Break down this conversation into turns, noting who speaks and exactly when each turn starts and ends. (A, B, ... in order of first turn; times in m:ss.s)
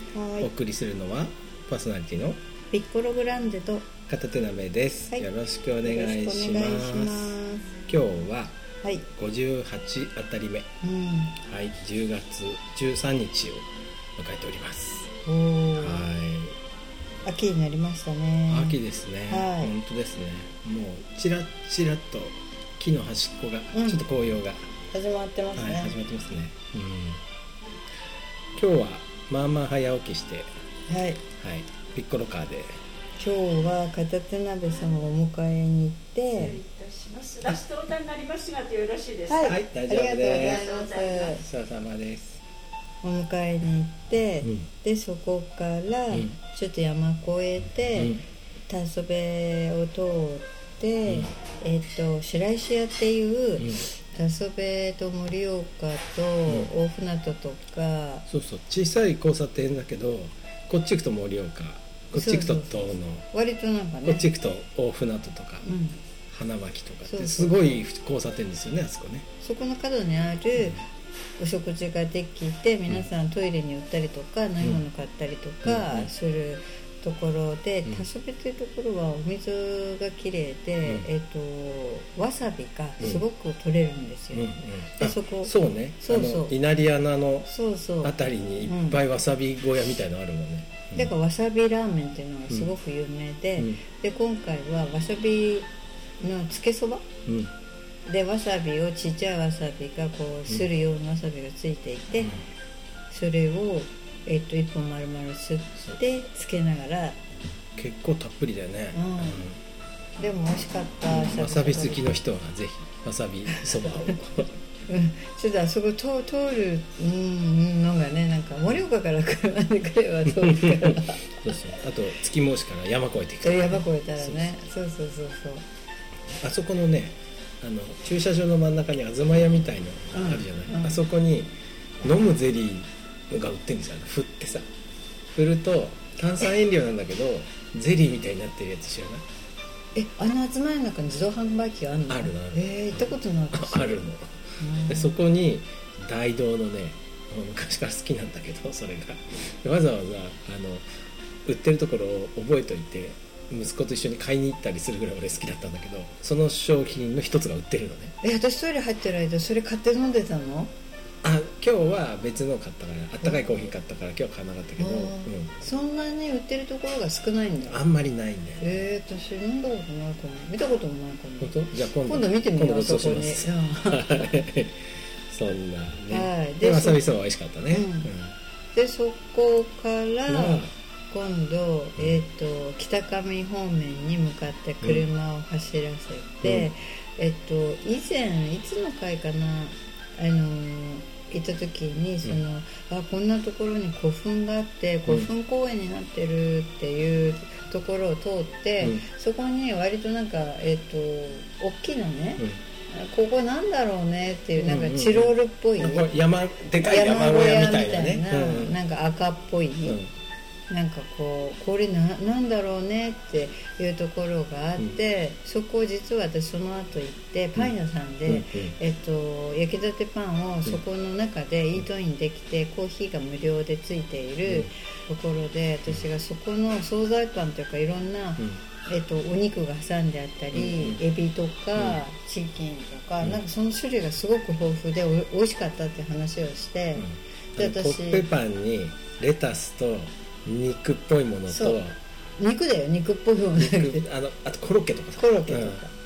0:00.1-0:00.5 A
0:00.4-0:02.4 B
0:02.7-0:03.9 A
0:04.1-0:08.6 B
0:05.8-0:07.8 A
0:09.2-0:10.7 B
0:10.8-0:11.4 A
0:11.4-0:15.1 B
0:15.3-0:16.1 A
0:15.8-0:16.6 B
0:17.2-0:18.8 A
0:18.5-0:24.7 B
0:19.3-0:19.7 A
0:23.7-0:24.0 A
0:24.9-0:26.0 A
0:25.6-0:27.2 B
0:28.6-0:30.5 B
0:30.9-0:31.2 A
0:31.4-0:32.7 B
0:33.2-0:36.6 A
0:36.6-0:39.4 C
0:39.3-0:41.4 A
0:39.4-0:40.7 B
0:41.4-0:42.4 B
0:43.0-0:58.3 A
0:48.0-0:48.2 B
0:53.6-0:53.9 B
0:58.3-1:03.3 B
1:02.1-1:04.3 A
1:04.1-1:05.7 B
1:05.6-1:06.0 A
1:06.3-1:09.3 B
1:07.0-1:07.8 A
1:09.4-1:10.8 A
1:10.6-1:10.8 B
1:11.4-1:26.6 A
1:15.6-1:16.1 B
1:24.3-1:27.5 B
1:27.5-1:29.0 A
1:28.0-1:31.1 B
1:30.9-1:35.7 A
1:36.2-1:37.0 A
1:37.3-1:37.5 B
1:38.1-1:42.3 A
1:43.1-1:47.2 A
1:47.8-1:49.6 B
1:48.9-1:49.5 A
1:50.2-1:52.1 A
1:51.1-1:54.6 B
1:53.5-1:54.2 A
1:54.9-2:01.5 A
2:00.3-2:04.5 B
2:03.4-2:05.6 A
2:06.4-2:14.7 B
2:10.1-2:11.0 A
2:15.4-2:19.2 B
2:20.0-2:24.1 A
2:22.1-2:30.8 B
2:24.6-2:25.2 A
2:31.4-2:38.2 B
2:38.2-2:40.7 A
2:41.2-2:45.5 B
2:44.8-2:47.8 A
2:47.7-2:48.9 B
2:48.6-2:54.3 A
2:51.4-2:58.4 B
2:56.1-2:57.1 A
2:57.7-2:58.1 A
2:58.7-3:26.1 A
3:00.3-3:00.7 B
3:06.4-3:06.7 B
3:24.6-3:28.8 B
3:26.8-3:30.0 A
3:30.7-3:57.1 A
3:38.3-3:38.8 B
3:44.4-3:44.7 B
3:50.5-3:51.0 B
3:57.0-4:02.0 B
3:57.6-3:58.3 A
4:01.5-4:01.8 A
4:02.4-4:04.0 A
4:03.6-4:05.8 B
4:05.2-4:05.9 A